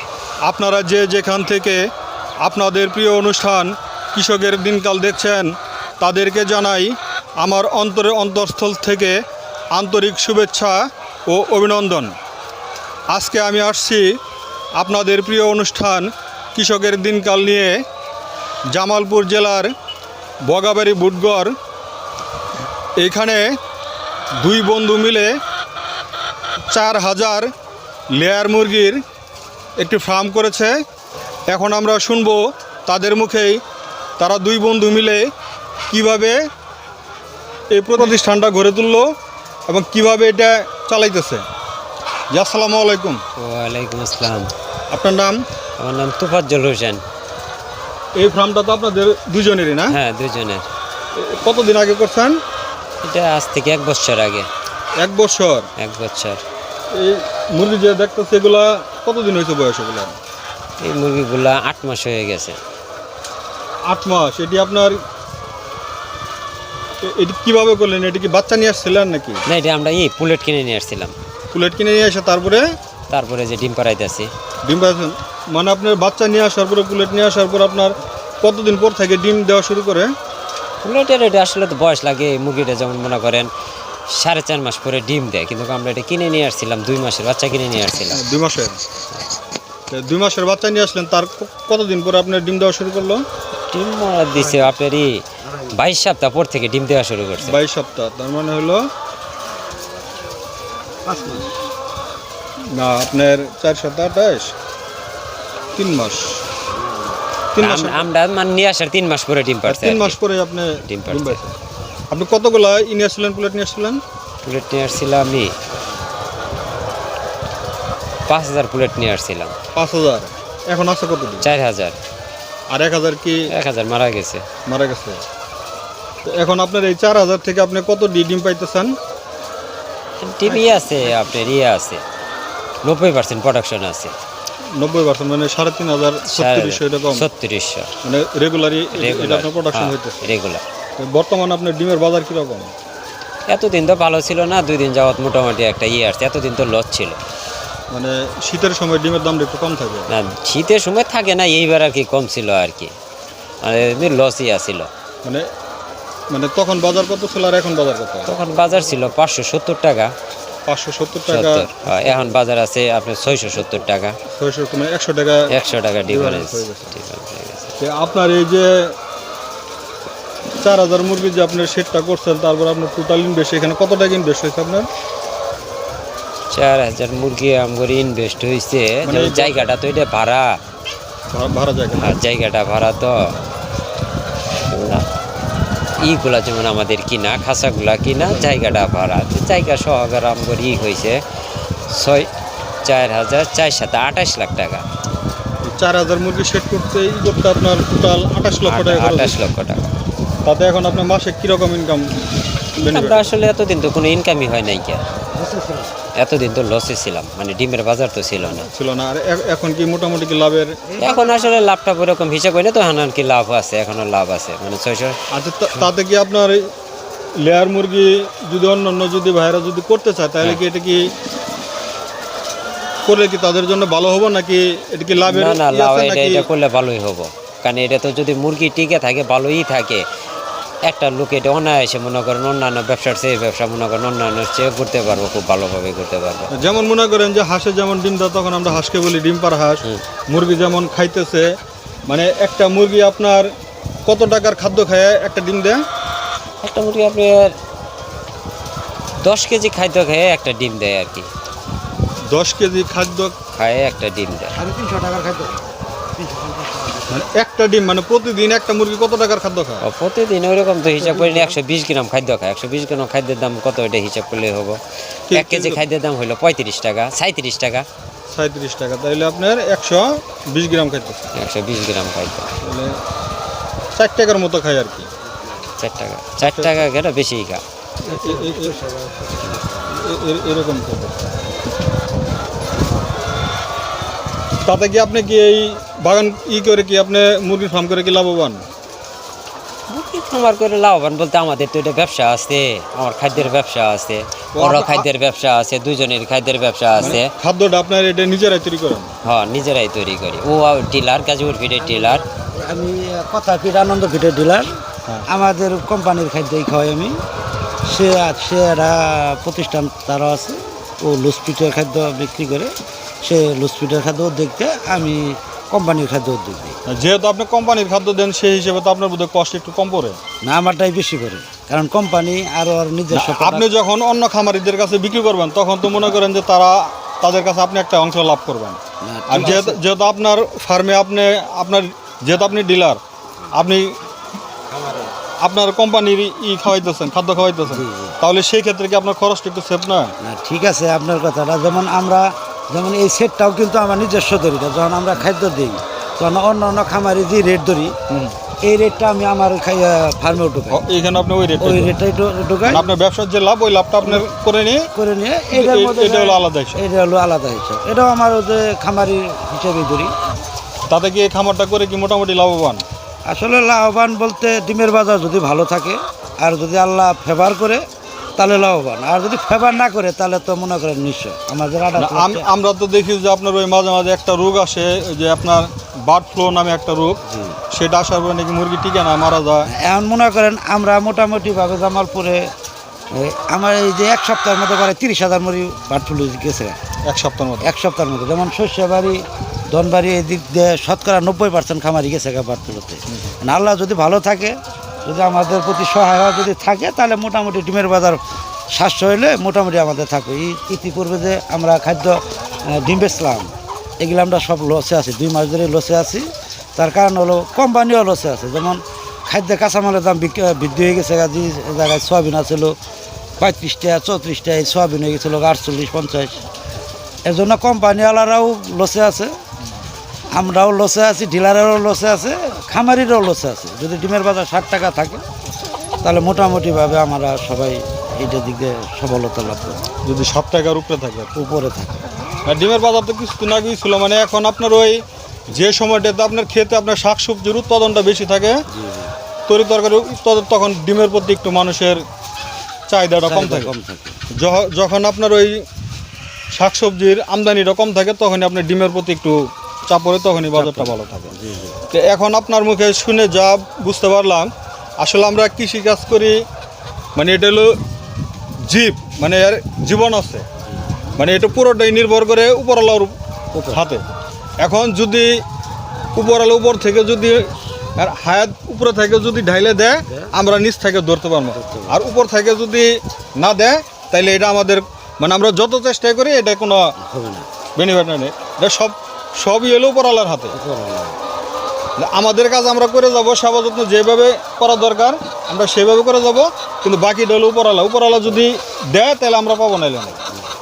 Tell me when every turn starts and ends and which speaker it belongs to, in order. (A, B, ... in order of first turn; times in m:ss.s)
0:00.4-0:01.9 A
0:02.4-0:09.2 A
0:09.7-0:12.2 A
0:13.1-0:14.1 A
0:14.8-0:17.8 A
0:18.7-0:19.7 A
0:20.5-0:21.6 A
0:23.0-0:23.4 A
0:24.4-0:25.4 A
0:26.7-0:27.5 A
0:28.2-0:29.0 A
0:29.8-0:30.8 A
0:31.5-0:33.6 A
0:34.2-0:35.3 A
0:35.9-0:36.4 A
0:37.7-0:39.1 A
0:39.7-0:41.4 A
0:42.3-0:43.2 A
0:43.4-0:44.5 B
0:44.9-0:45.4 A
0:45.8-0:47.0 B
0:48.2-0:49.9 A
0:49.9-0:50.7 B
0:51.2-0:52.4 A
0:53.0-0:54.5 B
0:55.0-0:55.7 A
0:55.8-0:56.4 B
0:56.9-1:00.2 A
1:00.8-1:02.6 B
1:03.9-1:05.0 A
1:07.0-1:09.4 A
1:09.5-1:11.1 B
1:11.5-1:12.7 A
1:13.1-1:14.3 B
1:14.6-1:20.1 A
1:20.8-1:23.5 B
1:24.1-1:28.2 B
1:28.1-1:28.8 A
1:29.9-1:33.2 A
1:33.7-1:37.6 B
1:34.3-1:34.8 C
1:35.5-1:35.7 C
1:37.4-1:38.8 A
1:41.0-1:41.5 C
1:42.7-1:44.5 A
1:45.8-1:46.4 A
1:47.5-1:48.1 A
1:47.6-1:50.2 B
1:49.7-1:51.5 A
1:50.9-1:51.4 B
1:52.1-1:54.0 A
1:54.4-1:55.5 B
1:58.3-1:59.5 B
1:59.7-2:01.5 A
2:01.4-2:02.0 B
2:02.7-2:03.5 A
2:03.5-2:04.4 B
2:04.7-2:05.2 A
2:06.2-2:08.9 A
2:10.2-2:12.0 B
2:10.5-2:10.8 C
2:12.8-2:14.2 B
2:14.8-2:17.2 A
2:16.3-2:17.9 B
2:18.0-2:20.3 A
2:18.9-2:20.6 B
2:21.0-2:22.7 A
2:23.5-2:27.2 B
2:27.9-2:30.1 A
2:30.1-2:32.9 B
2:33.6-2:34.9 B
2:36.3-2:38.3 A
2:38.3-2:40.1 B
2:40.7-2:42.0 A
2:41.3-2:44.2 B
2:44.3-2:45.5 A
2:45.5-2:47.7 B
2:46.1-2:47.0 A
2:47.8-2:48.9 A
2:50.6-2:54.9 A
2:56.5-3:00.5 B
2:59.0-2:59.7 A
3:01.3-3:02.2 A
3:01.9-3:03.4 B
3:04.7-3:05.0 B
3:06.0-3:11.2 B
3:11.9-3:12.3 B
3:12.8-3:14.8 B
3:15.6-3:19.4 A
3:18.6-3:19.9 B
3:20.4-3:22.1 A
3:22.8-3:23.4 A
3:22.8-3:25.0 B
3:25.3-3:26.0 C
3:26.2-3:28.7 B
3:28.6-3:30.8 A
3:30.9-3:31.6 C
3:31.0-3:35.2 B
3:35.3-3:36.6 A
3:37.4-3:41.1 A
3:43.1-3:46.5 A
3:45.2-3:50.0 B
3:50.9-3:56.5 B
3:56.5-4:01.6 A
4:02.1-4:03.5 A
4:04.1-4:05.8 A
4:06.6-4:07.5 B
4:09.2-4:11.3 B
4:12.3-4:13.3 A
4:13.5-4:14.6 B
4:14.6-4:17.3 C
4:17.1-4:19.8 A
4:19.8-4:24.8 B
4:20.9-4:21.6 C
4:25.3-4:25.8 A
4:25.3-4:27.9 B
4:28.3-4:31.3 A
4:31.4-4:32.5 B
4:32.6-4:33.0 A
4:33.9-4:35.1 A
4:35.8-4:37.6 B
4:36.4-4:36.8 A
4:38.1-4:40.0 C
4:38.1-4:38.7 A
4:39.9-4:41.3 A
4:44.6-4:48.6 A
4:49.9-4:57.3 B
4:54.6-4:55.1 A
4:57.0-4:59.2 A
4:59.2-5:02.2 B
5:01.8-5:04.7 C
5:05.3-5:07.2 C
5:07.8-5:16.8 C
5:16.9-5:20.2 A
5:20.4-5:23.7 C
5:23.1-5:33.0 A
5:29.0-5:29.8 C
5:33.5-5:34.0 A
5:34.7-5:35.1 B
5:35.4-5:40.1 A
5:37.7-5:38.2 C
5:40.2-5:47.9 C
5:48.6-5:50.8 C
5:50.7-5:51.9 A
5:51.6-5:52.9 C
5:52.7-5:54.9 A
5:54.9-6:00.1 C
5:55.5-5:56.8 A
6:00.9-6:02.8 A
6:03.3-6:07.8 C
6:08.4-6:12.5 C
6:12.0-6:17.2 A
6:17.3-6:17.6 C
6:17.7-6:19.7 A
6:19.7-6:22.5 C
6:23.1-6:26.8 C
6:27.0-6:27.7 A
6:27.6-6:38.2 C
6:38.7-6:52.8 C
6:53.4-6:56.4 C
6:57.3-6:59.3 C
7:00.3-7:05.2 C
7:06.0-7:09.9 C
7:10.0-7:11.3 A
7:11.4-7:12.1 C
7:12.4-7:18.6 A
7:18.7-7:19.1 C
7:19.5-7:22.0 A
7:22.9-7:23.7 A
7:23.2-7:24.2 C
7:24.4-7:25.6 A
7:26.5-7:31.4 A
7:30.5-7:31.8 C
7:31.9-7:36.4 A
7:37.2-7:37.8 A
7:38.6-7:40.5 A
7:41.2-7:43.1 A
7:43.5-7:43.8 C
7:43.7-7:44.0 A
7:44.6-7:45.4 A
7:46.2-7:47.5 A
7:48.0-7:56.9 A
7:50.1-7:50.3 C
7:51.6-7:52.0 C
7:57.0-7:57.5 C
7:57.8-8:00.6 A
8:00.5-8:01.2 C
8:02.0-8:10.2 A